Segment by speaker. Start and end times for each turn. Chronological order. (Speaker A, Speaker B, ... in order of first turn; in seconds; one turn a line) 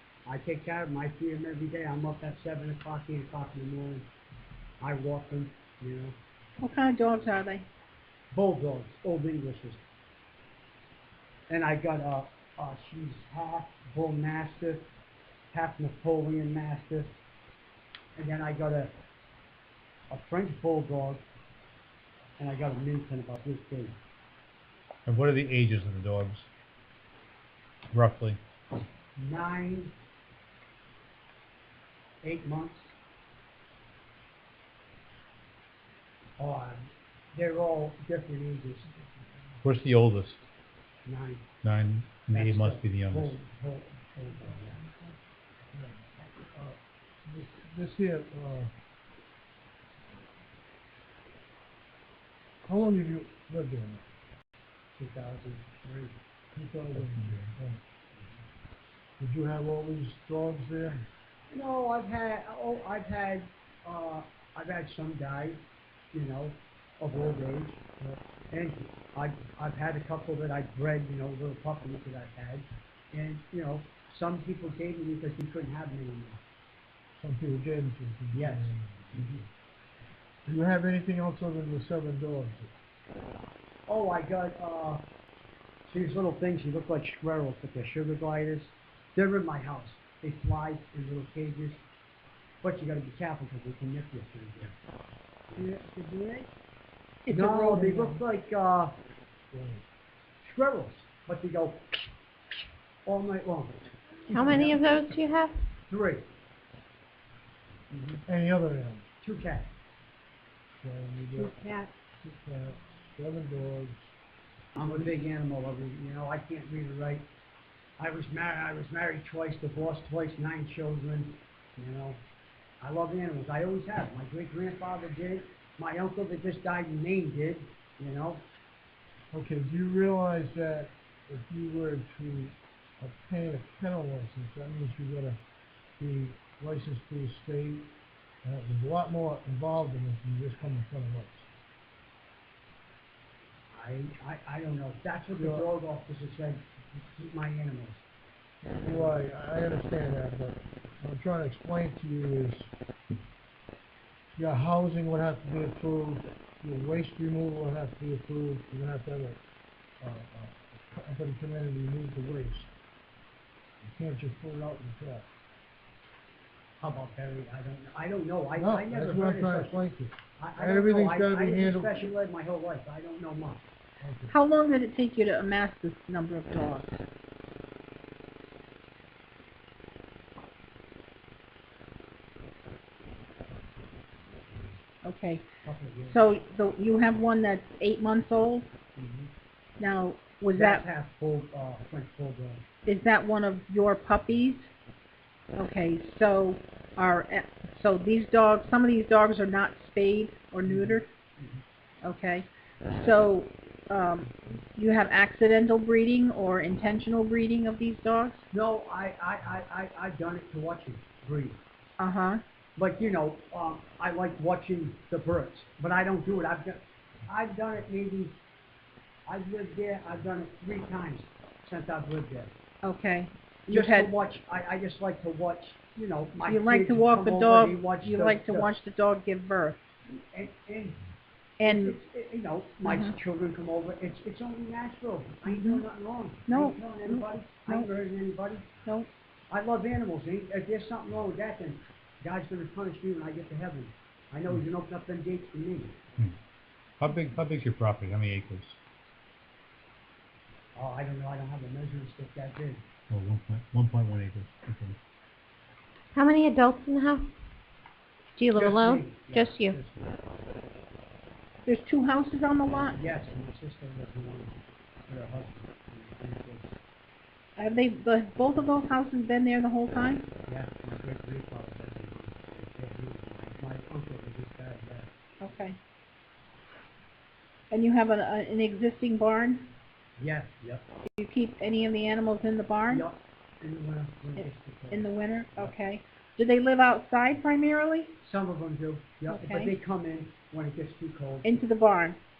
Speaker A: 0.2-4.1
Speaker A: 4.8-6.1
Speaker B: 6.6-7.6
Speaker A: 8.3-9.8
Speaker A: 11.5-14.8
Speaker A: 15.5-17.1
Speaker A: 18.1-18.9
Speaker A: 20.1-21.2
Speaker A: 22.4-24.0
Speaker C: 25.1-26.5
Speaker C: 27.9-28.4
Speaker A: 29.1-29.9
Speaker A: 32.2-32.9
Speaker A: 36.4-38.9
Speaker C: 39.6-40.4
Speaker A: 41.0-41.5
Speaker C: 41.6-43.4
Speaker A: 42.3-44.8
Speaker D: 45.7-48.7
Speaker D: 52.6-54.0
Speaker A: 55.0-56.1
Speaker D: 56.5-57.8
Speaker D: 59.2-61.0
Speaker A: 61.5-65.6
Speaker A: 66.1-67.8
Speaker A: 68.5-76.4
Speaker D: 77.1-79.4
Speaker A: 78.3-79.4
Speaker D: 80.5-82.7
Speaker A: 83.9-85.0
Speaker A: 85.8-91.8
Speaker A: 92.6-94.7
Speaker B: 95.6-96.5
Speaker A: 97.3-99.0
Speaker D: 97.4-98.2
Speaker D: 99.5-99.8
Speaker A: 100.4-102.1
Speaker A: 103.0-105.2
Speaker E: 104.3-105.5
Speaker A: 105.9-106.2
Speaker A: 107.9-108.2
Speaker D: 108.2-109.0
Speaker A: 109.2-109.7
Speaker D: 110.8-111.6
Speaker D: 112.2-114.1
Speaker A: 114.7-117.2
Speaker D: 114.8-115.1
Speaker A: 118.0-122.2
Speaker A: 122.8-128.4
Speaker D: 129.3-135.4
Speaker D: 136.0-137.9
Speaker D: 138.4-141.5
Speaker A: 143.7-148.0
Speaker D: 145.4-145.7
Speaker D: 148.8-152.7
Speaker D: 154.3-159.4
Speaker D: 160.0-162.7
Speaker D: 163.8-165.3
Speaker A: 166.8-169.8
Speaker D: 168.6-172.1
Speaker A: 170.4-173.6
Speaker D: 174.0-174.3
Speaker B: 174.3-177.0
Speaker B: 185.0-185.4
Speaker A: 185.6-186.2
Speaker B: 186.1-188.7
Speaker A: 188.9-189.3
Speaker B: 189.8-190.8
Speaker A: 190.5-192.6
Speaker B: 192.8-194.7
Speaker B: 195.6-201.1
Speaker A: 200.6-201.6
Speaker B: 202.0-208.4
Speaker A: 208.5-211.6
Speaker B: 212.0-212.4
Speaker A: 212.8-218.3
Speaker A: 219.2-222.5
Speaker B: 222.8-224.1
Speaker A: 223.7-228.7
Speaker B: 226.4-229.8
Speaker A: 230.1-231.0
Speaker B: 231.6-232.0
Speaker A: 231.6-238.7
Speaker B: 232.8-233.1
Speaker B: 235.4-235.8
Speaker B: 236.5-237.9
Speaker A: 239.5-246.1
Speaker C: 247.0-248.8
Speaker A: 250.7-252.8
Speaker C: 253.1-255.0
Speaker E: 256.1-257.2
Speaker E: 258.4-259.7
Speaker A: 258.5-260.3
Speaker B: 261.6-263.0
Speaker A: 262.9-264.6
Speaker A: 265.1-266.7
Speaker B: 267.6-270.3
Speaker A: 270.5-275.1
Speaker B: 275.4-275.8
Speaker B: 277.7-279.7
Speaker A: 280.2-280.9
Speaker B: 281.1-283.0
Speaker A: 282.9-285.7
Speaker B: 284.4-288.1
Speaker A: 288.2-291.5
Speaker B: 289.3-289.8
Speaker B: 291.4-292.2